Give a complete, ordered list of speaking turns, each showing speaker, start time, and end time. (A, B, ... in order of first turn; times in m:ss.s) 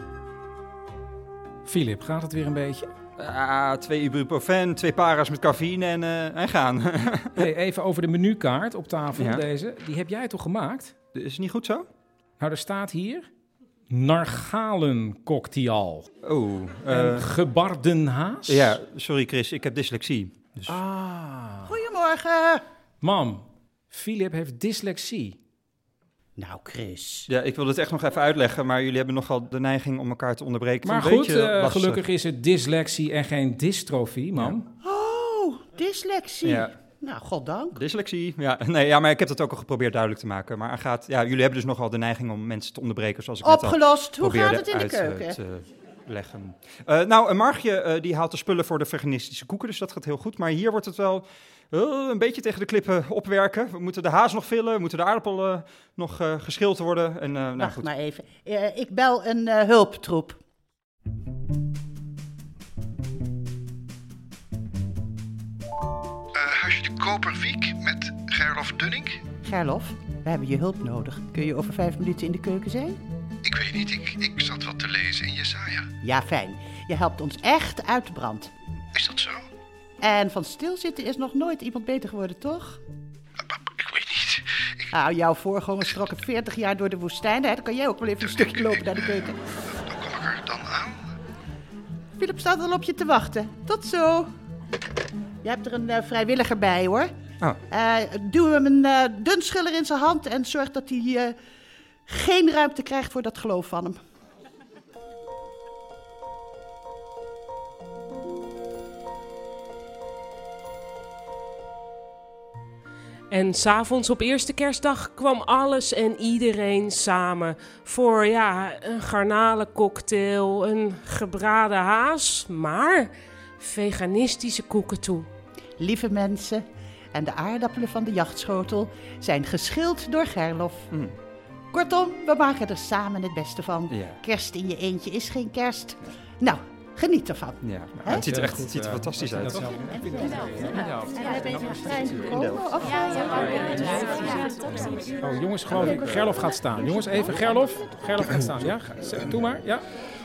0:01.6-0:02.9 A
0:03.2-0:07.4 B
0:07.4-0:10.9 A
0:09.2-0:09.4 B
0:11.1-0:11.9 B
0:12.4-0:13.3 A
0:13.9-0:16.1 A
0:16.2-0:17.3 B
0:16.9-0:18.8 A
0:18.5-0:20.8 B
0:20.7-0:21.7 A
0:21.6-0:22.6 C
0:23.0-0:25.4 A
0:26.4-0:27.3 C
0:27.3-0:32.0 B
0:30.8-0:34.7 A
0:34.8-0:37.8 C
0:36.4-0:36.7 B
0:37.7-0:57.8 B
0:43.4-0:45.4 C
0:57.6-1:00.4 C
1:06.3-1:09.2 D
1:09.4-1:13.0 C
1:13.4-1:15.9 D
1:16.0-1:18.5 C
1:18.9-1:19.4 D
1:20.0-1:22.8 C
1:23.4-1:24.8 D
1:24.9-1:29.4 C
1:28.2-1:29.1 D
1:29.8-1:31.0 D
1:32.2-1:34.3 C
1:35.4-1:37.1 C
1:37.7-1:41.4 C
1:42.0-1:44.0 C
1:53.3-2:05.3 E
2:05.8-2:10.9 C
2:11.7-2:18.2 C
2:13.9-2:14.2 B
2:17.6-2:19.7 B
2:18.1-2:21.9 A
2:21.2-2:23.7 C
2:23.5-2:23.9 A
2:25.2-2:29.8 A